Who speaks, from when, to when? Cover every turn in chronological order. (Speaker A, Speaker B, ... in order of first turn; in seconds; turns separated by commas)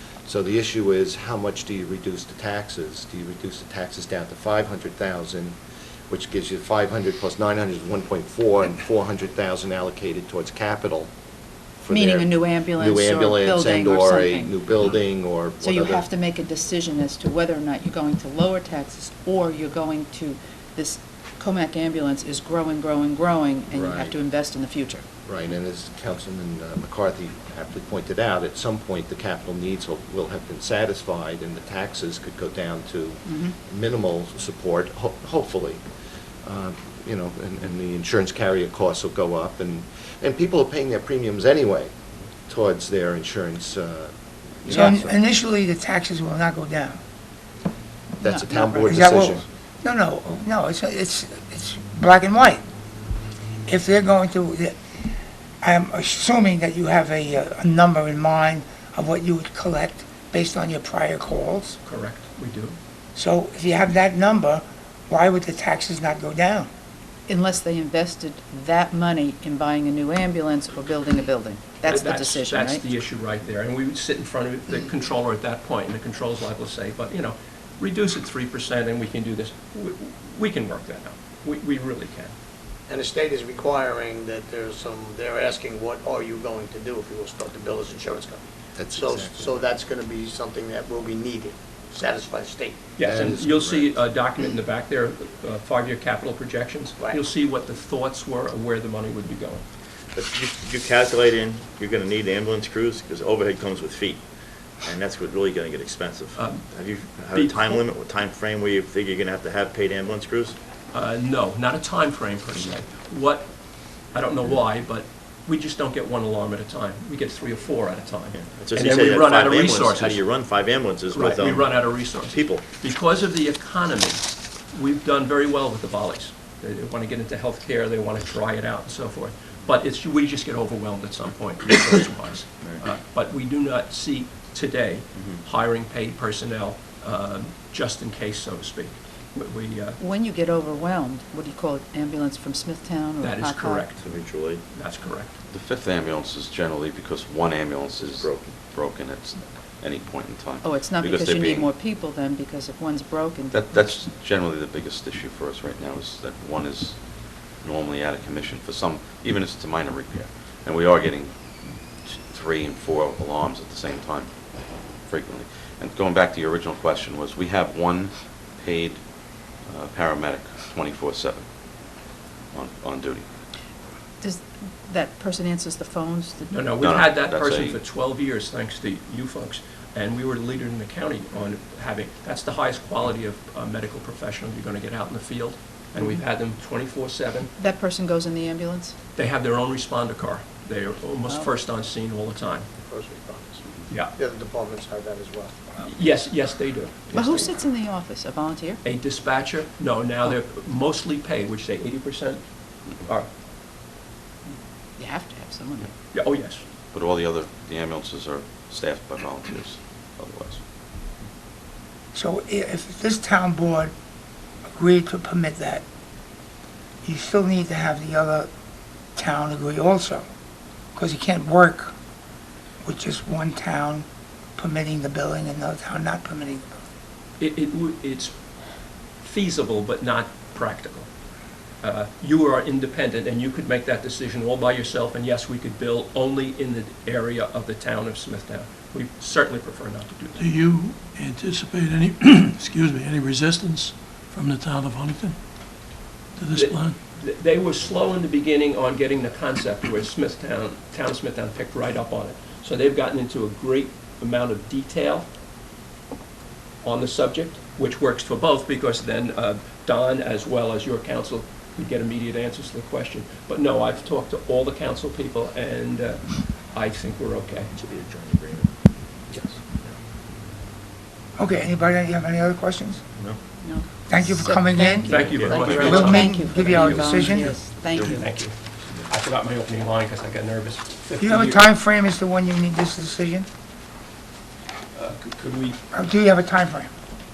Speaker A: 0.3-5.6, Speaker A: 6.1-11.1, Speaker A: 11.8-16.1, Speaker B: 11.9-14.6, Speaker B: 15.6-25.0, Speaker A: 23.7-24.2, Speaker A: 25.2-35.8, Speaker B: 33.3-33.5, Speaker A: 36.4-41.9, Speaker A: 42.5-45.2, Speaker C: 44.7-47.0, Speaker A: 48.2-49.5, Speaker B: 48.2-49.3, Speaker C: 48.5-52.6, Speaker C: 53.7-54.8, Speaker C: 55.6-61.8, Speaker D: 61.8-62.8, Speaker C: 63.1-66.7, Speaker B: 67.3-72.9, Speaker D: 71.8-82.3, Speaker E: 82.9-93.0, Speaker A: 88.8-89.8, Speaker D: 93.0-99.6, Speaker A: 93.0-94.0, Speaker F: 100.1-110.6, Speaker D: 106.4-107.9, Speaker D: 110.9-120.3, Speaker F: 118.3-122.7, Speaker D: 121.1-140.0, Speaker B: 140.0-143.9, Speaker D: 143.2-144.1, Speaker F: 143.9-144.7, Speaker D: 144.7-145.3, Speaker G: 145.5-151.7, Speaker F: 148.1-148.6, Speaker B: 150.6-153.6, Speaker G: 153.5-171.9, Speaker G: 172.5-173.3, Speaker B: 174.2-176.6, Speaker D: 176.5-187.5, Speaker G: 176.7-177.8, Speaker B: 187.6-189.0, Speaker D: 189.2-192.7, Speaker E: 192.8-196.1, Speaker D: 193.9-194.2, Speaker D: 195.8-197.5, Speaker B: 197.1-198.8, Speaker D: 198.8-203.3, Speaker B: 205.0-205.9, Speaker D: 206.1-206.6, Speaker G: 206.9-210.6, Speaker C: 212.1-213.9, Speaker C: 214.7-215.8, Speaker C: 217.0-218.5, Speaker C: 219.2-220.2, Speaker C: 220.9-221.9, Speaker C: 222.8-224.1, Speaker C: 224.6-226.7, Speaker D: 227.4-228.4, Speaker D: 229.2-231.1, Speaker D: 231.8-240.5, Speaker H: 240.4-245.6, Speaker H: 246.4-246.9, Speaker D: 246.5-255.3, Speaker D: 256.8-267.7, Speaker F: 267.8-270.0, Speaker C: 271.4-273.0, Speaker B: 273.6-278.3, Speaker C: 274.1-277.5, Speaker D: 275.0-281.7, Speaker F: 275.3-276.0, Speaker G: 275.5-275.9, Speaker C: 281.2-283.5, Speaker D: 284.9-285.8, Speaker C: 285.9-286.9